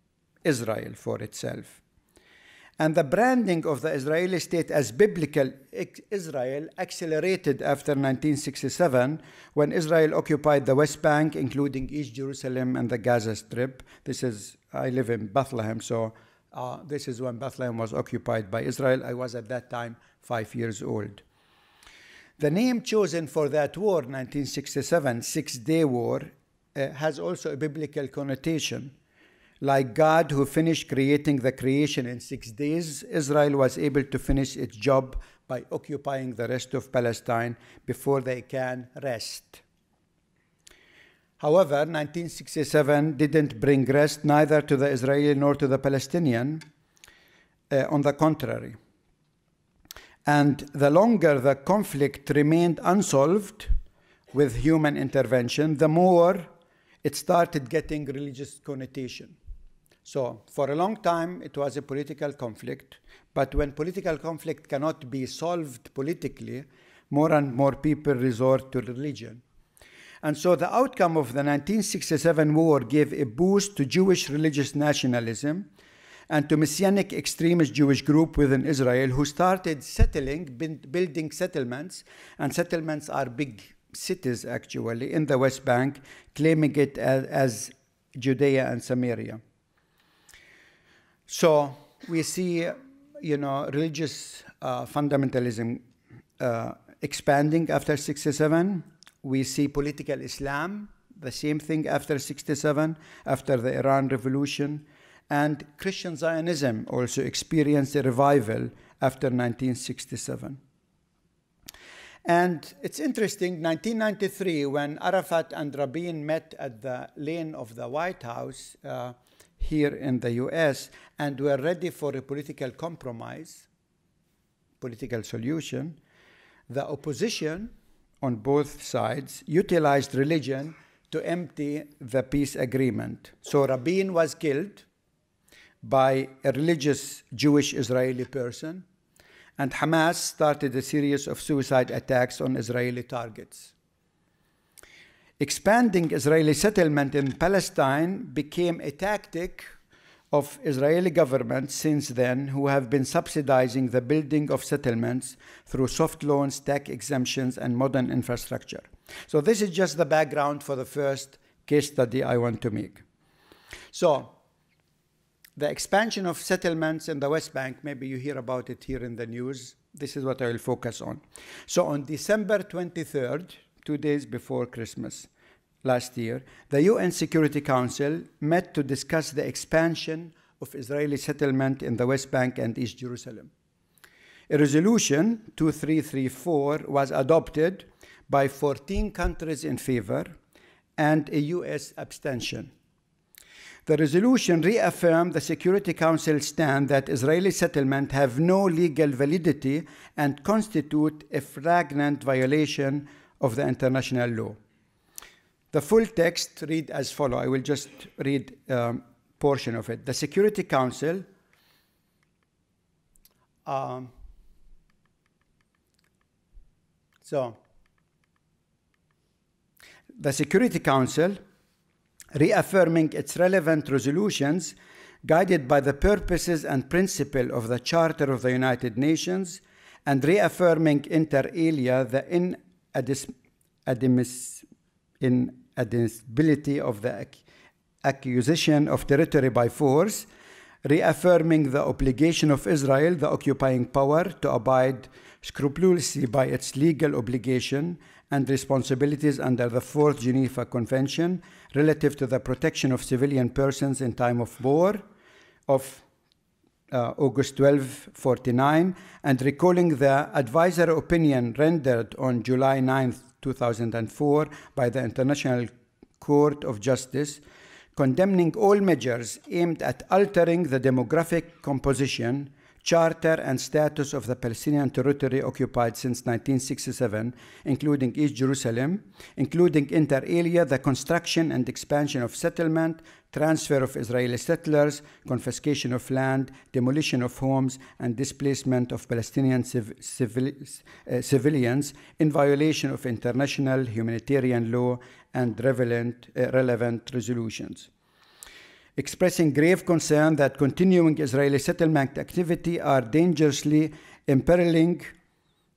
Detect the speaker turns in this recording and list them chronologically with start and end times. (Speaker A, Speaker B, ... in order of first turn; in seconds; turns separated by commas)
Speaker A: 0.4-1.8, Speaker A: 2.8-21.2, Speaker A: 22.4-28.9, Speaker A: 29.6-39.6, Speaker A: 41.4-46.6, Speaker A: 47.7-48.8, Speaker A: 50.2-53.7, Speaker A: 54.3-56.5, Speaker A: 57.0-59.4, Speaker A: 60.0-69.4, Speaker A: 70.2-75.7, Speaker A: 76.3-89.4, Speaker A: 91.3-95.8, Speaker A: 96.4-110.6, Speaker A: 112.2-123.7, Speaker A: 124.8-126.0, Speaker A: 126.7-134.8, Speaker A: 135.8-138.8, Speaker A: 139.6-143.7, Speaker A: 145.4-149.7, Speaker A: 150.3-163.0, Speaker A: 163.9-164.4, Speaker A: 165.6-175.3, Speaker A: 175.8-183.5, Speaker A: 184.5-190.4, Speaker A: 191.0-192.7, Speaker A: 193.8-204.6, Speaker A: 205.7-211.2, Speaker A: 213.7-214.1, Speaker A: 217.2-217.6, Speaker A: 220.2-221.4, Speaker A: 222.3-233.3, Speaker A: 233.8-234.6, Speaker A: 235.2-237.4, Speaker A: 238.0-240.3, Speaker A: 240.8-255.0, Speaker A: 255.7-256.0, Speaker A: 256.9-267.4, Speaker A: 267.9-297.9, Speaker A: 299.0-305.1